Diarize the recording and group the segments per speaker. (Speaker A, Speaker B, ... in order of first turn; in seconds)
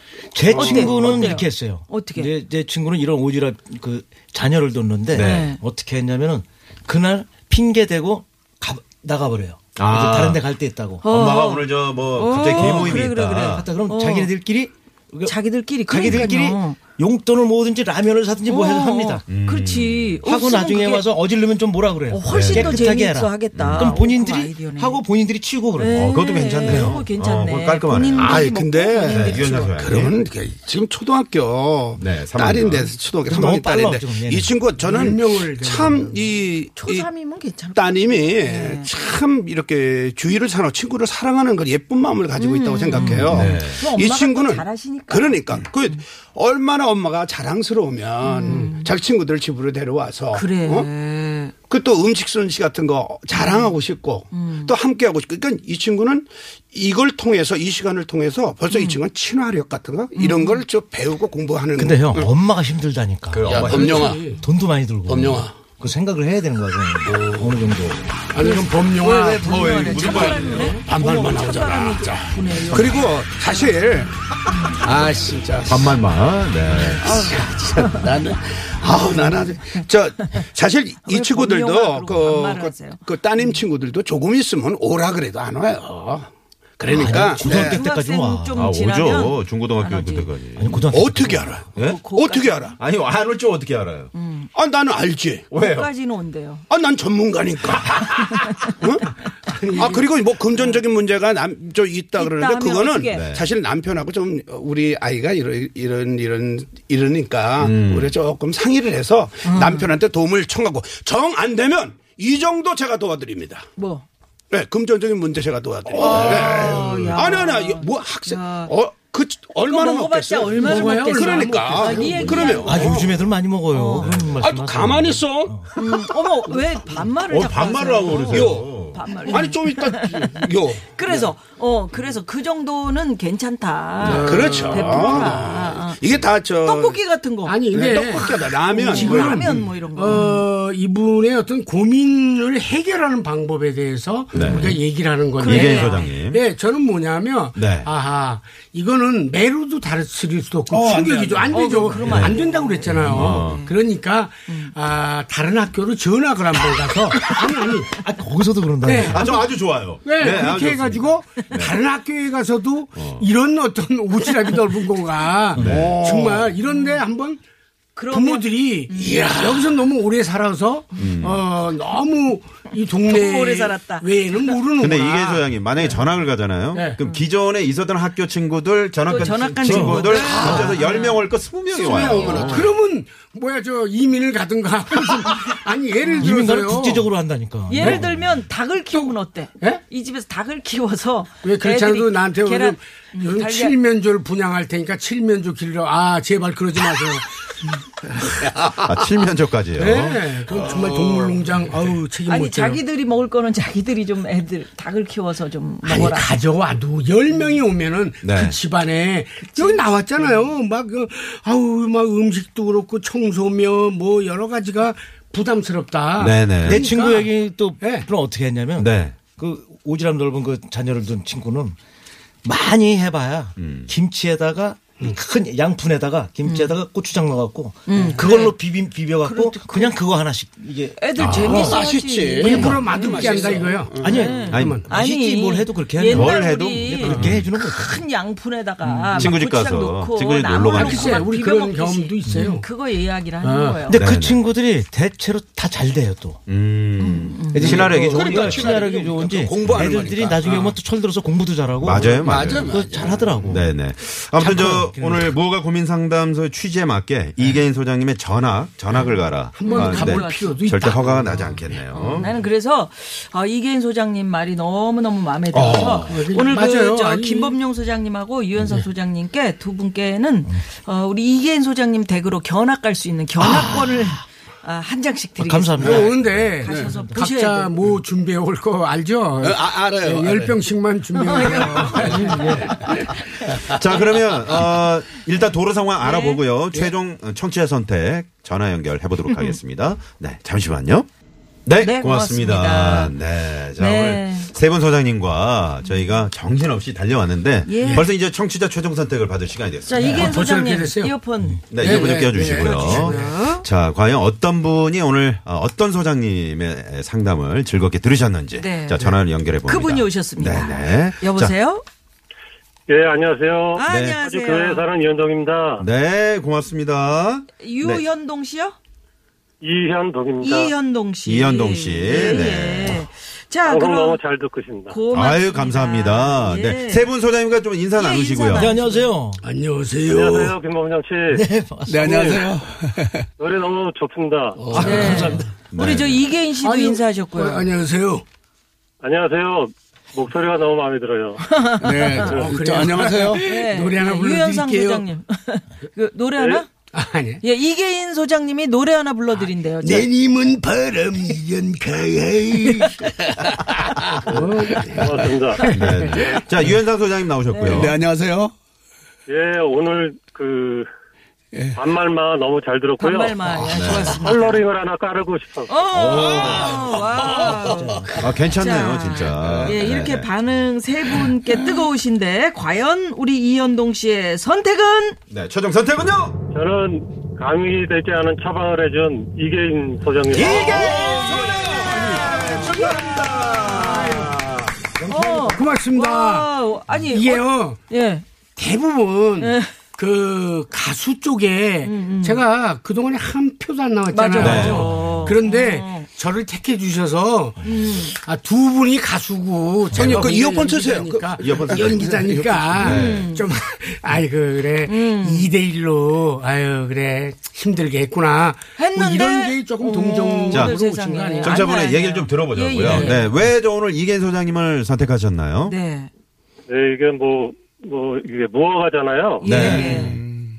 Speaker A: 0.3-11.0, 12.5-19.2, 20.2-26.0, 26.7-26.9, 33.2-35.1, 42.9-43.3, 61.8-68.1, 86.9-88.6, 90.6-91.5, 122.4-125.7, 150.7-152.3, 152.8-153.3, 157.2-159.3, 179.6-180.8, 186.2-188.1, 216.6-221.8, 222.4-232.8, 234.0-238.0, 238.8-239.3, 242.3-242.5, 243.8-246.4, 247.5-253.7, 254.3-255.3, 275.4-277.1, 282.2-282.6, 328.5-329.4, 331.3-332.8, 334.6-335.5, 367.6-368.1, 385.0-385.6
Speaker B: 0.4-2.3, 5.1-5.6, 11.0-14.3, 15.2-16.8, 18.5-21.1, 22.1-25.0, 25.8-29.8, 36.8-38.9, 42.4-46.0, 48.2-48.9, 50.3-51.5, 53.3-53.8, 54.3-54.7, 58.7-59.0, 60.1-60.6, 68.3-73.9, 74.5-75.1, 76.7-78.1, 79.0-79.4, 81.0-83.0, 87.0-90.8, 91.8-92.8, 94.1-94.5, 95.5-96.6, 102.2-103.3, 109.4-109.9, 113.8-114.0, 115.9-118.7, 119.6-123.0, 123.7-124.1, 125.8-140.4, 145.4-146.2, 151.5-153.7, 154.5-154.7, 166.7-167.0, 167.9-169.7, 173.0-174.6, 177.0-177.2, 179.1-181.2, 182.1-182.5, 186.0-186.3, 187.7-193.7, 202.3-206.3, 209.5-210.3, 226.4-226.7, 227.9-228.6, 229.2-230.0, 231.0-244.0, 247.0-247.8, 259.6-260.6, 261.9-277.7, 281.1-282.9, 286.0-286.4, 289.3-289.6, 291.8-293.1, 293.8-294.5, 295.8-296.2, 297.6-298.1, 299.8-303.6, 308.5-311.8, 313.7-314.8, 317.6-318.8, 320.4-324.2, 324.9-327.1, 327.9-329.1, 334.8-337.7, 341.4-342.3, 343.2-346.7, 347.4-350.1, 355.6-355.9, 357.5-357.9, 363.0-364.6, 365.7-375.1, 380.7-384.3, 385.0-388.2, 389.4-389.7, 391.8-392.4, 394.1-396.1, 397.6-398.1, 402.8-403.4, 404.9-405.5, 408.8-413.3, 415.6-416.1, 419.4-420.2
Speaker C: 5.1-5.5, 9.8-10.4, 11.0-13.7, 16.0-16.3, 19.3-20.2, 22.3-22.7, 23.5-24.0, 25.9-28.5, 29.1-30.1, 32.0-32.9, 43.3-43.8, 63.3-64.1, 69.4-70.8, 75.6-77.2, 88.5-90.8, 92.8-94.1, 95.5-95.9, 103.1-103.5, 107.6-108.1, 124.0-124.4, 127.3-129.0, 144.3-144.8, 145.4-146.4, 147.6-147.9, 152.0-152.4, 153.0-153.6, 159.0-161.7, 163.0-163.2, 165.6-165.9, 171.0-171.4, 174.8-182.7, 198.8-200.2, 208.2-208.6, 216.2-216.8, 218.8-219.2, 223.6-223.9, 231.2-231.7, 234.5-234.8, 236.1-237.4, 239.1-241.2, 243.9-244.4, 246.5-248.7, 251.8-252.7, 253.5-262.3, 283.6-291.1, 291.6-300.2, 301.7-311.5, 313.9-314.2, 315.8-318.1, 321.2-323.1, 325.1-328.7, 335.7-336.2, 355.6-357.9, 363.7-364.1, 365.9-366.9, 368.1-370.3, 375.3-376.4, 380.3-384.6, 394.4-394.9, 399.9-400.2, 401.4-402.1, 402.8-403.2, 410.5-410.8, 411.4-415.8, 419.4-420.2
Speaker D: 28.1-37.1, 37.7-50.9, 51.7-62.3, 63.4-64.3, 65.1-65.5, 68.8-75.9, 77.0-86.3, 86.8-87.8, 90.9-92.8, 94.5-95.5, 96.7-113.7, 114.5-123.1, 124.4-125.6, 128.3-128.7, 129.2-131.3, 134.0-137.0, 137.7-140.1, 144.4-144.7, 145.6-146.3, 150.8-152.2, 152.8-153.6, 160.1-160.7, 161.3-161.6, 165.5-166.8, 169.1-169.6, 180.1-180.7, 181.7-183.2, 198.3-198.8, 199.8-201.7, 216.4-216.7, 231.5-234.6, 240.7-241.2, 247.7-250.8, 251.9-253.4, 260.9-261.5, 265.5-266.1, 275.8-276.9, 279.4-280.8, 281.3-282.6, 301.9-302.9, 331.9-333.1, 334.6-335.3, 341.8-343.6, 349.9-355.3, 356.0-356.4, 357.7-358.5, 380.4-382.5, 394.4-395.1, 399.8-403.2, 419.6-420.5
Speaker E: 33.2-33.8, 34.8-36.3, 63.9-64.4, 68.3-69.4, 70.1-70.8, 99.7-100.1, 116.9-117.2, 120.9-122.5, 134.0-135.3, 137.4-138.3, 138.8-145.6, 146.3-157.9, 158.8-159.1, 160.1-167.4, 168.1-175.3, 181.8-187.0, 191.4-197.2, 199.8-202.8, 205.8-217.2, 217.8-218.1, 232.4-234.8, 240.8-242.6, 243.4-243.8, 259.6-261.2, 266.0-267.5, 275.9-282.0, 300.0-301.1, 301.8-303.3, 329.4-330.5, 336.6-338.2, 341.9-345.0, 346.9-347.4, 349.8-350.2, 354.4-355.0, 385.5-386.5, 387.1-387.8, 388.6-411.5
Speaker F: 312.9-315.9, 319.6-320.7, 323.6-325.0, 330.0-331.4, 332.0-332.5, 333.4-334.8, 339.0-341.4, 342.0-342.8, 346.4-346.6, 354.8-355.6, 359.3-360.9, 361.7-363.4, 364.0-365.7, 376.5-380.9, 416.7-419.8